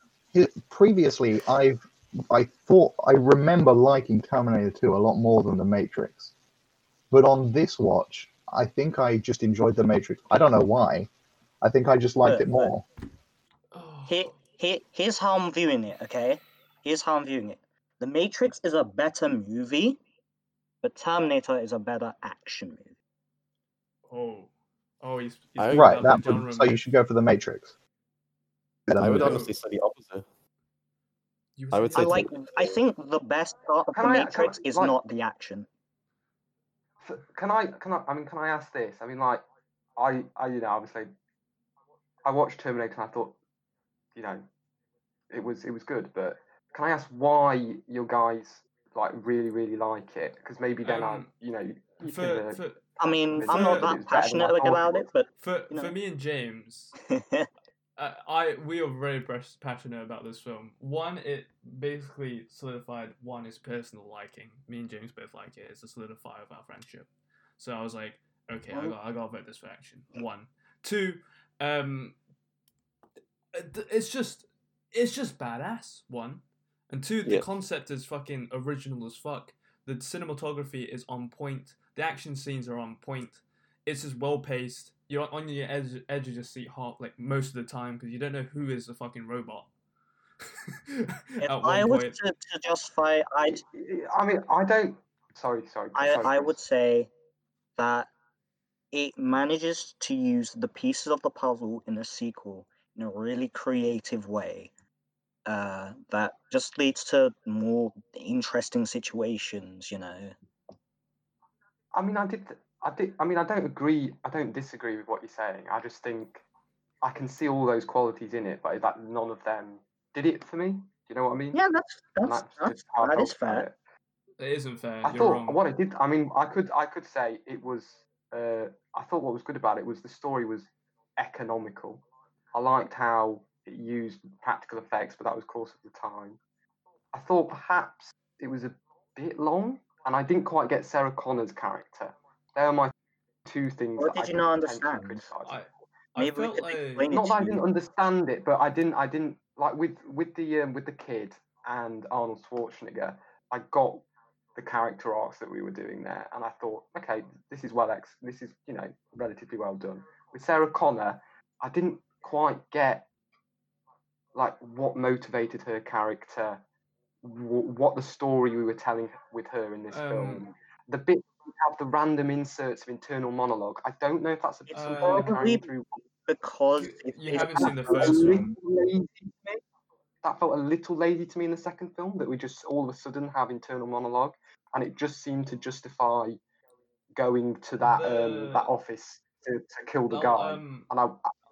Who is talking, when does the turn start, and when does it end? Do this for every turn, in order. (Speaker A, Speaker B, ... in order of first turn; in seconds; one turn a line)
Speaker A: 0.3-6.3
Speaker A: 7.1-11.1
Speaker A: 11.6-12.8
Speaker B: 12.2-12.7
Speaker C: 13.7-14.4
Speaker B: 14.1-20.0
Speaker B: 20.8-22.9
Speaker C: 24.1-26.8
Speaker D: 25.6-26.1
Speaker A: 25.7-27.7
Speaker A: 28.9-29.4
Speaker D: 29.0-30.3
Speaker C: 29.1-29.5
Speaker C: 31.6-32.3
Speaker D: 31.7-32.8
Speaker B: 31.9-35.7
Speaker E: 33.9-35.0
Speaker E: 37.0-39.4
Speaker E: 40.0-41.1
Speaker E: 42.2-43.4
Speaker E: 44.1-44.5
Speaker E: 45.3-52.6
Speaker C: 50.8-51.3
Speaker C: 52.0-54.0
Speaker B: 53.0-55.9
Speaker E: 53.3-55.1
Speaker C: 55.4-57.0
Speaker B: 57.1-57.5
Speaker C: 58.0-72.2
Speaker C: 73.5-89.7
Speaker C: 90.7-92.2
Speaker B: 91.4-93.6
Speaker E: 93.5-96.6
Speaker B: 96.0-97.1
Speaker B: 97.8-98.1
Speaker B: 98.9-104.7
Speaker B: 105.5-110.3
Speaker E: 111.9-116.4
Speaker E: 117.0-121.6
Speaker B: 121.5-123.7
Speaker E: 122.2-123.8
Speaker C: 124.4-125.6
Speaker E: 125.0-136.4
Speaker E: 137.1-142.9
Speaker E: 143.5-145.6
Speaker B: 144.0-145.3
Speaker C: 145.4-147.1
Speaker B: 146.2-147.6
Speaker E: 147.1-154.1
Speaker E: 154.6-163.1
Speaker E: 164.3-166.6
Speaker E: 167.2-176.1
Speaker C: 169.9-170.4
Speaker C: 174.7-175.4
Speaker B: 174.8-175.7
Speaker B: 176.3-178.4
Speaker C: 176.8-178.6
Speaker E: 177.4-179.6
Speaker E: 180.2-186.4
Speaker E: 187.2-191.3
Speaker C: 187.8-188.7
Speaker C: 190.1-190.9